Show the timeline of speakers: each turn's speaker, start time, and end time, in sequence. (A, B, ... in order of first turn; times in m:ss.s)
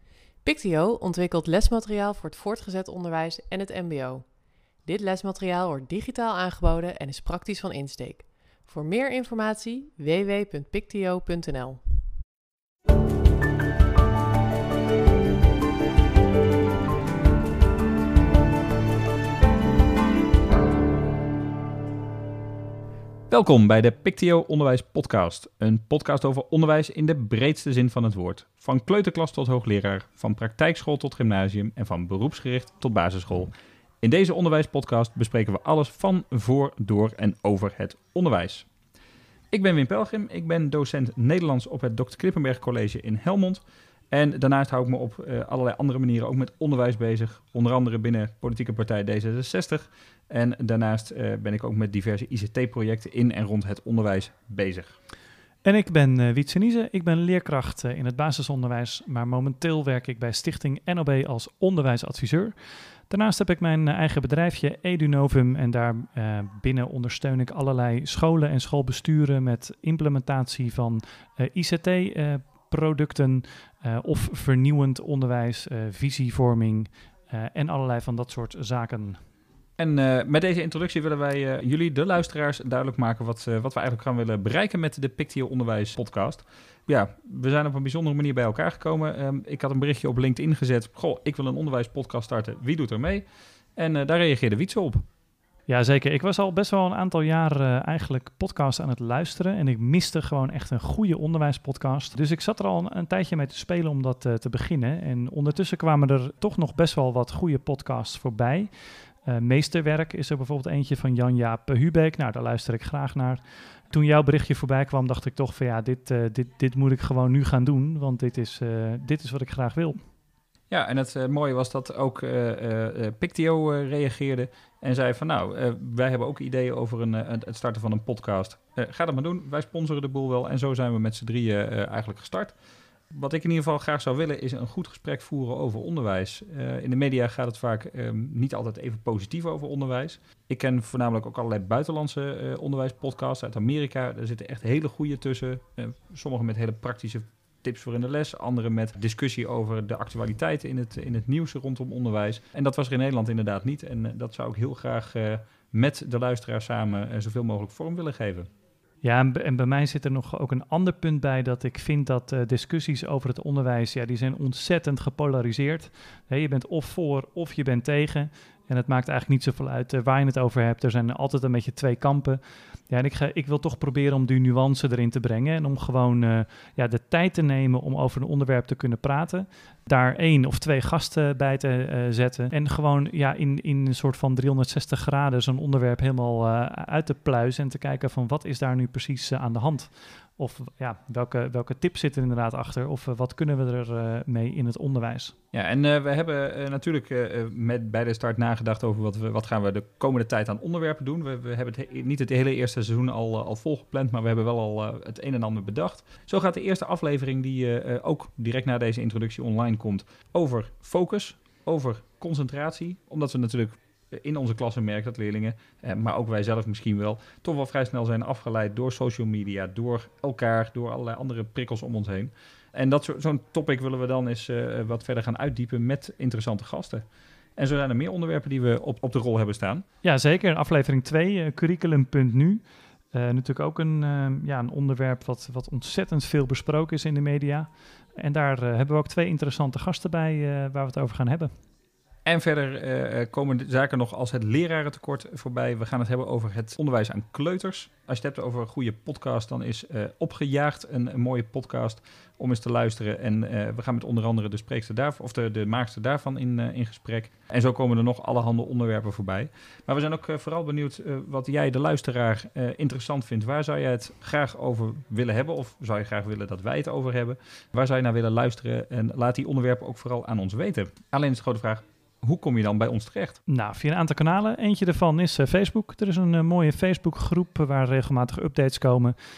0:00.4-0:04.2 A
0:04.9-0:11.8 A
0:23.3-0:38.7 B
0:39.5-0:55.0 B
0:55.6-1:19.2 C
1:19.8-1:35.0 B
1:35.7-2:00.0 C
2:00.7-2:12.6 B
2:13.1-2:38.5 B
2:39.0-3:15.4 C
3:15.5-3:47.1 B
3:47.6-3:49.8 B
3:50.0-4:01.5 C
4:02.3-4:33.4 B
4:33.5-4:39.2 C